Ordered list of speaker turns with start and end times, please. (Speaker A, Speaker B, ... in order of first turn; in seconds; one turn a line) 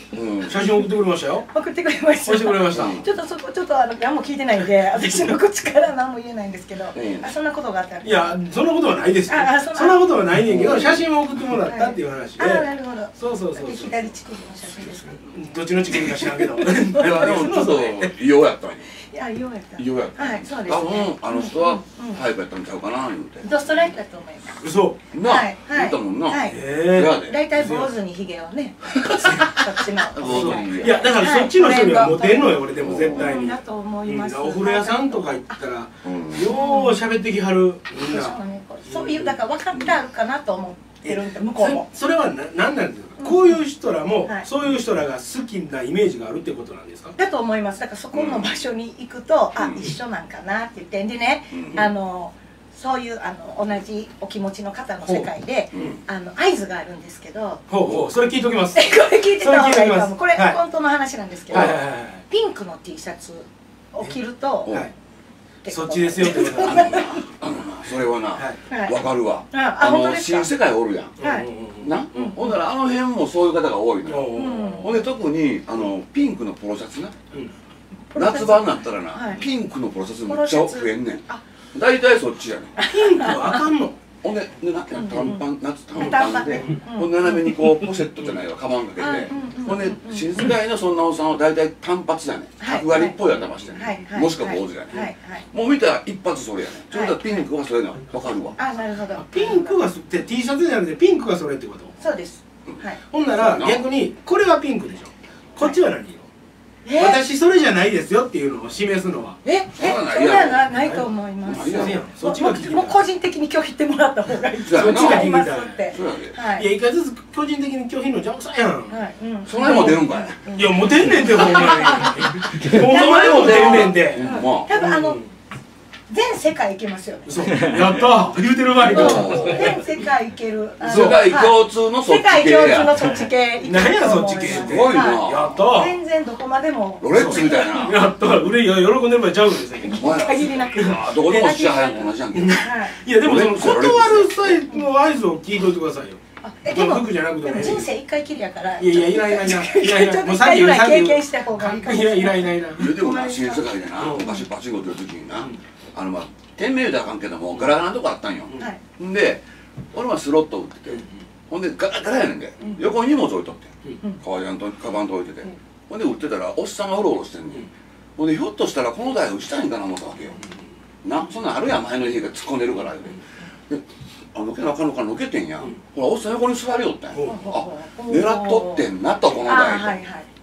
Speaker A: 0.1-0.7
Speaker B: 0.5-1.5
Speaker C: 1.5-8.4
Speaker B: 2.3-3.0
Speaker A: 2.7-3.1
Speaker A: 6.9-7.3
Speaker B: 8.0-14.1
Speaker C: 9.3-10.1
Speaker A: 10.5-11.1
Speaker C: 11.6-15.2
Speaker B: 15.1-18.1
Speaker C: 16.6-17.6
Speaker A: 16.8-18.9
Speaker C: 19.1-22.2
Speaker A: 19.8-23.9
Speaker C: 23.4-24.7
Speaker B: 24.6-25.0
Speaker A: 25.1-27.4
Speaker C: 25.2-26.6
Speaker B: 26.5-27.9
Speaker C: 27.2-35.6
Speaker A: 29.0-31.2
Speaker B: 30.3-39.4
Speaker A: 32.8-33.5
Speaker A: 36.0-36.5
Speaker C: 36.4-37.1
Speaker C: 38.0-41.9
Speaker B: 41.0-47.2
Speaker C: 43.2-43.6
Speaker C: 47.2-57.6
Speaker A: 48.1-48.5
Speaker A: 49.6-49.9
Speaker A: 51.5-51.8
Speaker B: 55.0-56.0
Speaker A: 55.7-56.0
Speaker B: 57.7-60.6
Speaker A: 57.8-58.1
Speaker C: 58.8-64.8
Speaker A: 61.5-61.8
Speaker B: 61.5-62.2
Speaker A: 64.7-64.9
Speaker C: 65.6-67.2
Speaker B: 65.7-67.2
Speaker A: 66.2-71.2
Speaker B: 68.4-68.6
Speaker C: 68.7-69.0
Speaker C: 69.5-70.5
Speaker B: 71.2-72.4
Speaker C: 71.2-71.5
Speaker A: 71.8-77.2
Speaker C: 72.1-72.5
Speaker B: 74.1-74.8
Speaker C: 74.3-75.1
Speaker C: 78.1-79.4
Speaker A: 78.2-82.8
Speaker C: 80.3-81.4
Speaker C: 82.8-83.6
Speaker B: 82.8-84.0
Speaker A: 84.2-98.6
Speaker C: 85.0-85.4
Speaker C: 86.0-87.3
Speaker B: 86.0-86.8
Speaker B: 87.4-88.3
Speaker C: 89.0-90.5
Speaker C: 92.6-93.2
Speaker C: 93.7-95.5
Speaker C: 96.9-97.2
Speaker C: 98.6-99.8
Speaker B: 99.2-101.9
Speaker C: 102.0-103.0
Speaker A: 102.7-103.8
Speaker B: 103.1-106.3
Speaker C: 106.8-107.2
Speaker B: 107.0-109.4
Speaker C: 109.5-116.7
Speaker A: 109.7-110.7
Speaker B: 110.7-113.0
Speaker A: 111.5-112.0
Speaker A: 114.7-115.4
Speaker B: 114.7-115.9
Speaker A: 115.9-116.4
Speaker B: 116.5-119.0
Speaker C: 118.9-125.2
Speaker A: 119.5-120.4
Speaker B: 119.6-125.3
Speaker A: 122.8-124.7
Speaker C: 126.1-127.7
Speaker B: 127.3-129.9
Speaker A: 128.8-129.8
Speaker C: 128.9-137.9
Speaker B: 130.8-131.2
Speaker A: 130.8-133.1
Speaker B: 133.6-136.0
Speaker A: 134.4-135.6
Speaker A: 137.0-138.1
Speaker B: 137.1-140.2
Speaker C: 139.8-143.0
Speaker A: 139.9-142.6
Speaker B: 142.3-147.9
Speaker A: 143.1-144.6
Speaker C: 146.4-154.5
Speaker B: 148.8-152.9
Speaker A: 152.8-170.4
Speaker B: 154.0-154.3
Speaker C: 162.6-162.8
Speaker A: 171.0-180.0
Speaker B: 177.1-177.4
Speaker C: 177.2-178.9
Speaker C: 179.4-180.3